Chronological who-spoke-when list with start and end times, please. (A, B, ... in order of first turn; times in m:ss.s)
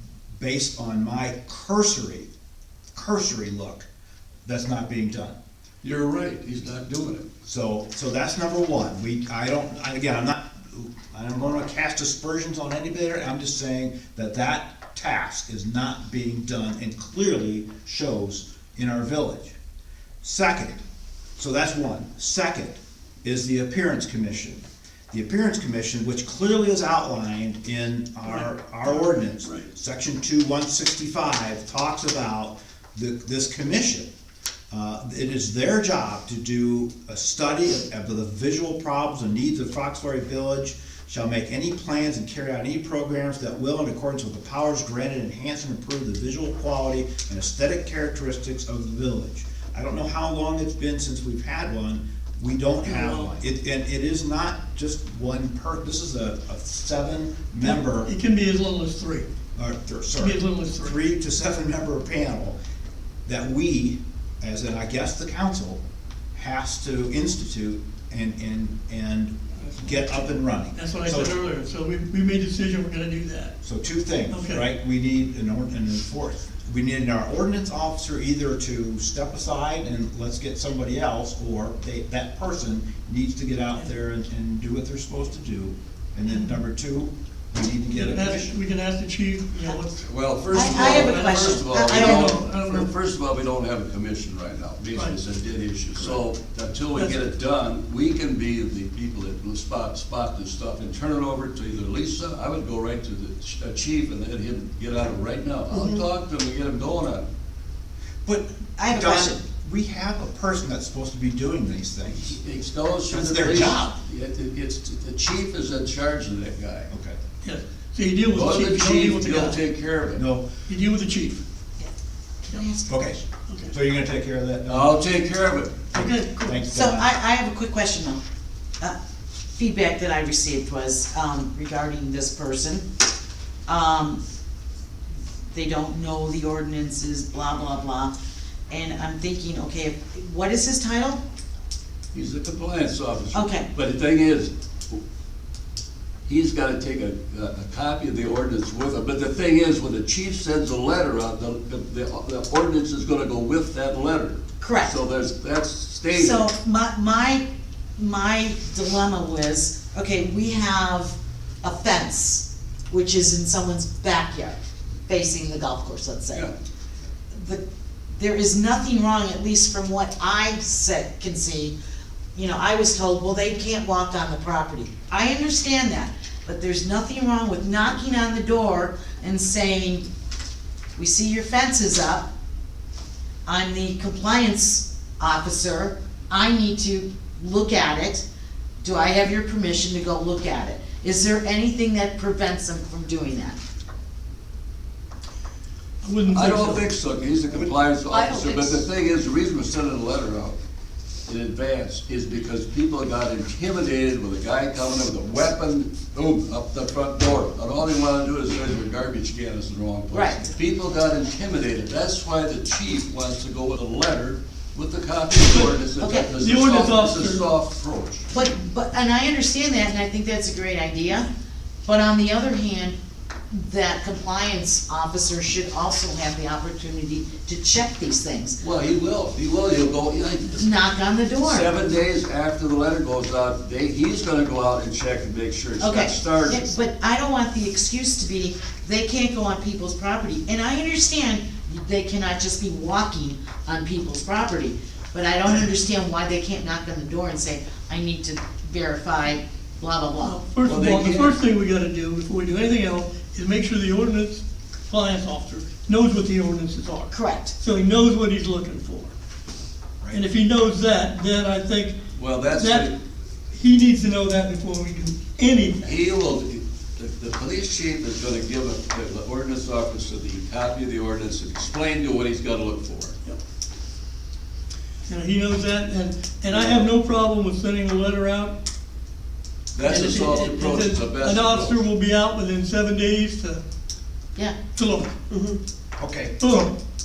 0:00.3-0:02.3 A
0:02.9-0:03.9 A
0:04.4-0:05.4 A
0:05.8-0:07.2 B
0:07.4-0:19.5 A
0:20.2-0:20.8 A
0:21.4-0:34.1 A
0:28.3-0:29.7 C
0:34.7-0:58.1 A
0:52.8-0:53.3 C
0:57.6-0:59.2 C
0:59.6-1:02.6 A
1:00.2-1:01.0 C
1:03.2-1:05.8 A
1:06.3-1:11.4 A
1:09.7-1:10.1 C
1:10.7-1:13.6 C
1:13.6-1:28.5 A
1:14.3-1:14.6 C
1:27.9-1:32.9 C
1:30.0-1:47.2 B
1:30.5-1:32.3 D
1:48.2-1:52.4 A
1:48.8-1:49.4 D
1:52.2-1:56.9 B
1:53.1-1:53.9 A
1:56.9-1:57.2 A
1:57.4-1:59.6 C
1:58.3-2:00.2 B
2:00.2-2:00.5 A
2:00.7-2:01.4 C
2:02.4-2:03.0 D
2:02.9-2:05.0 A
2:04.7-2:05.9 B
2:05.9-2:06.7 C
2:05.9-2:07.1 A
2:06.7-2:08.2 D
2:09.5-2:12.8 D
2:13.7-2:14.2 D
2:15.5-2:18.1 D
2:18.7-2:21.2 D
2:22.1-2:25.0 B
2:23.3-2:23.7 D
2:26.2-2:36.5 B
2:34.6-2:34.9 D
2:36.1-2:37.4 D
2:38.0-2:46.5 D
2:47.3-2:47.6 D
2:48.1-2:51.7 D
2:52.3-3:00.0 D
3:01.0-3:02.3 D
3:03.4-3:08.2 D
3:08.8-3:13.6 D
3:16.0-3:16.8 C
3:16.3-3:20.6 B
3:18.1-3:18.8 D
3:21.3-3:38.3 B
3:30.1-3:30.6 D
3:35.9-3:36.3 D
3:36.4-3:37.4 C
3:38.3-3:41.3 D
3:41.8-3:43.0 D
3:43.5-3:48.6 D
3:48.6-3:50.7 B
3:50.6-3:51.7 D
3:51.4-3:56.7 B
3:55.8-4:10.4 D
4:10.2-4:19.1 C
4:10.6-4:11.4 B
4:17.1-4:17.5 D
4:20.1-4:22.0 C
4:22.1-4:22.9 B
4:22.5-4:22.9 C
4:23.5-4:26.0 C
4:25.8-4:33.2 B
4:35.1-4:38.6 C
4:39.7-4:41.8 B
4:39.8-4:43.6 C
4:44.7-4:45.6 C
4:46.0-4:46.6 A
4:46.4-4:46.7 C